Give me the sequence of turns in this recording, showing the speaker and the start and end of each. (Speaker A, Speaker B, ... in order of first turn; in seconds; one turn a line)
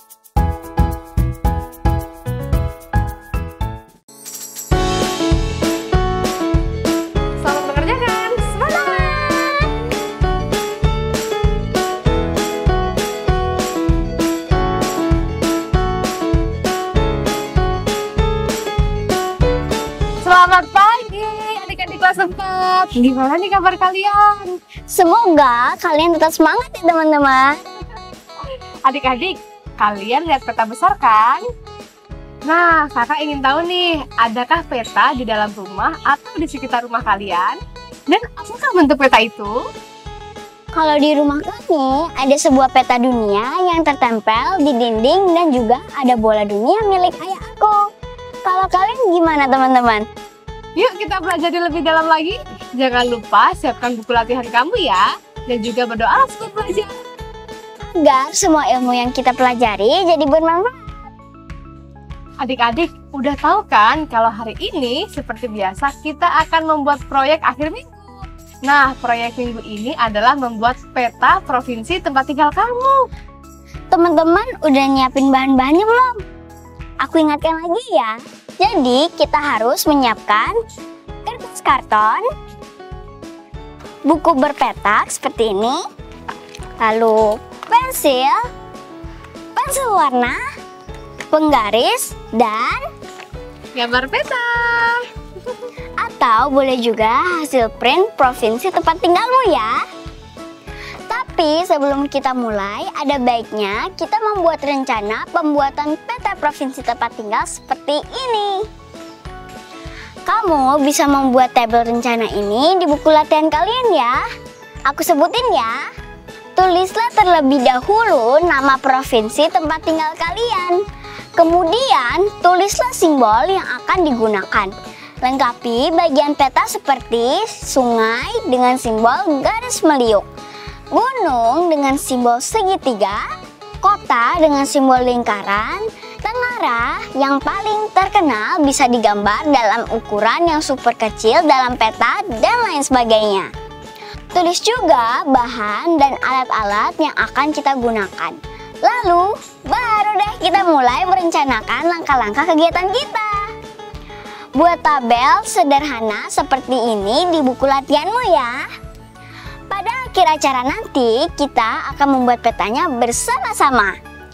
Speaker A: 7.4-9.7
Speaker A: 20.2-24.6
Speaker B: 24.9-27.6
Speaker A: 28.4-31.5
Speaker A: 32.5-37.6
Speaker A: 38.1-39.5
Speaker B: 40.8-47.8
Speaker B: 48.5-50.1
Speaker A: 50.8-57.0
Speaker B: 57.9-60.9
Speaker A: 62.4-68.1
Speaker A: 68.7-73.0
Speaker B: 73.9-76.2
Speaker B: 77.0-80.6
Speaker B: 81.2-82.3
Speaker B: 84.1-85.8
Speaker B: 86.8-88.5
Speaker B: 89.6-90.4
Speaker B: 91.3-92.9
Speaker A: 93.8-95.5
Speaker B: 96.0-99.8
Speaker B: 101.1-108.7
Speaker B: 110.3-114.2
Speaker B: 114.9-115.8
Speaker B: 116.6-120.8
Speaker B: 121.4-124.7
Speaker B: 125.2-130.3
Speaker B: 130.9-133.2
Speaker B: 133.8-143.5
Speaker B: 144.3-153.4
Speaker B: 154.6-158.6
Speaker B: 159.7-164.0